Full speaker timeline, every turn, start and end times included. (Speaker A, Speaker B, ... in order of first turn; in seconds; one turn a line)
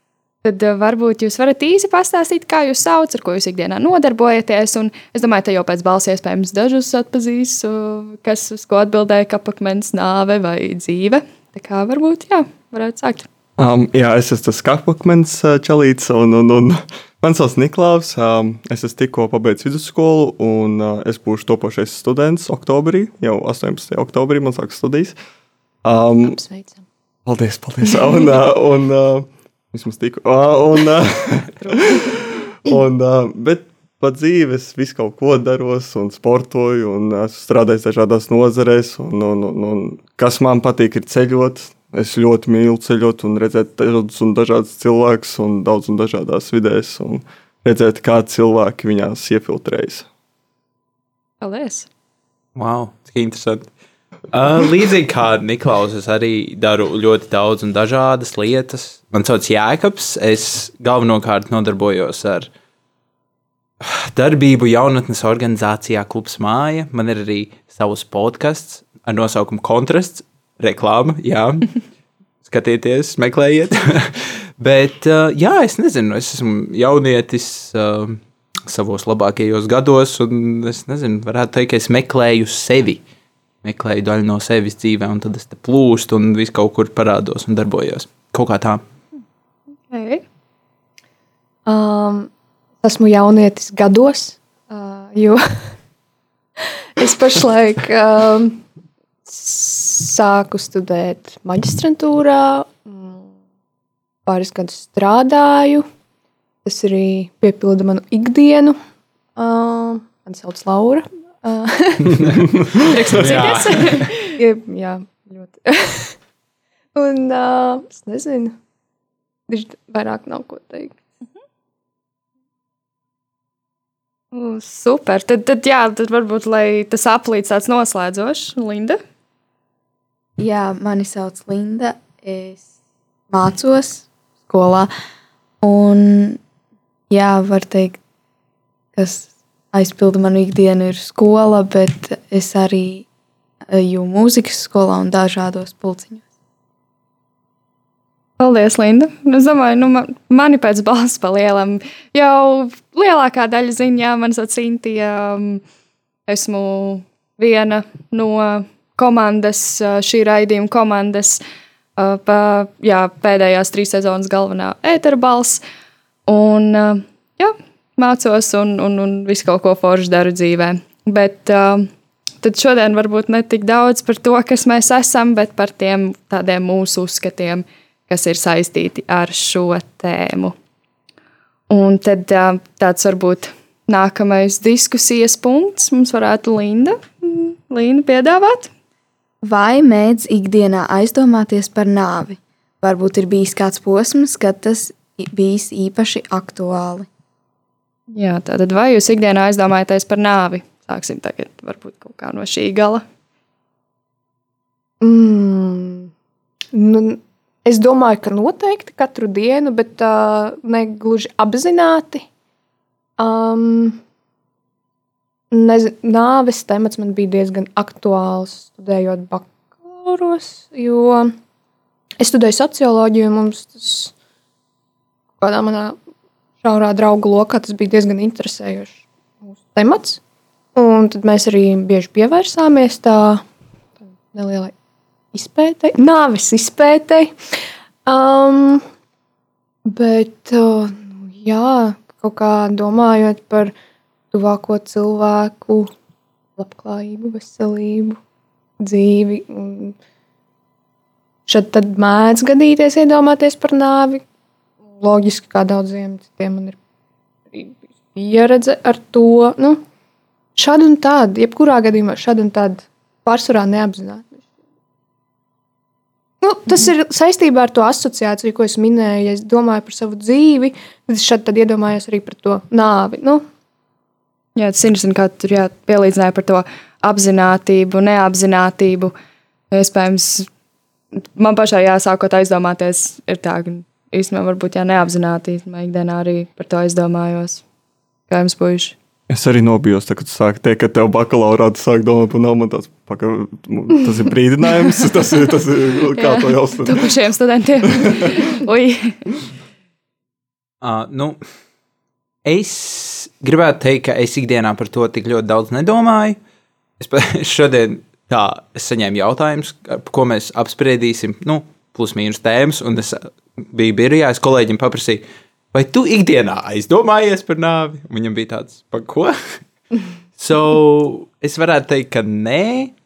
Speaker A: 0.4-13.3
Speaker B: 13.6-25.2
Speaker B: 25.8-26.4
Speaker C: 26.2-26.8
Speaker B: 27.3-50.1
Speaker A: 51.4-51.9
Speaker D: 52.5-53.7
Speaker D: 54.3-62.5
Speaker D: 63.8-71.8
Speaker D: 72.4-83.0
Speaker D: 83.6-88.8
Speaker A: 89.9-90.2
Speaker C: 91.7-92.3
Speaker C: 92.8-95.4
Speaker C: 97.0-98.6
Speaker C: 99.3-103.3
Speaker C: 104.3-105.9
Speaker C: 106.7-108.8
Speaker C: 109.4-116.2
Speaker D: 112.1-112.4
Speaker A: 112.8-114.3
Speaker D: 113.1-114.1
Speaker C: 117.0-118.6
Speaker C: 119.5-121.0
Speaker A: 124.3-129.0
Speaker E: 130.4-132.7
Speaker E: 133.3-134.9
Speaker E: 135.6-136.4
Speaker E: 137.1-138.0
Speaker E: 139.0-143.1
Speaker E: 143.7-146.2
Speaker A: 148.4-155.6
Speaker A: 156.3-161.4
Speaker A: 162.0-165.6
Speaker A: 166.3-171.9
Speaker A: 172.4-180.6
Speaker A: 181.7-188.7
Speaker E: 189.4-197.1
Speaker A: 198.1-203.0
Speaker C: 205.0-206.1
Speaker C: 206.7-212.3
Speaker C: 213.2-214.0
Speaker C: 215.5-221.3
Speaker C: 222.2-224.1
Speaker C: 225.4-226.0
Speaker C: 226.6-230.2
Speaker C: 230.8-233.4
Speaker C: 234.0-234.7
Speaker C: 235.3-237.3
Speaker C: 238.1-238.8
Speaker C: 239.9-243.7
Speaker C: 244.3-245.9
Speaker C: 246.6-248.2
Speaker C: 248.8-249.9
Speaker C: 251.5-254.2
Speaker C: 255.0-256.8
Speaker C: 257.5-259.8
Speaker C: 260.6-264.4
Speaker C: 266.4-273.4
Speaker A: 274.6-279.1
Speaker A: 279.7-280.5
Speaker A: 281.4-287.6
Speaker A: 288.3-288.9
Speaker B: 289.3-297.1
Speaker A: 296.2-299.2
Speaker D: 300.8-301.4
Speaker D: 302.4-306.4
Speaker D: 307.0-319.4
Speaker D: 320.4-322.9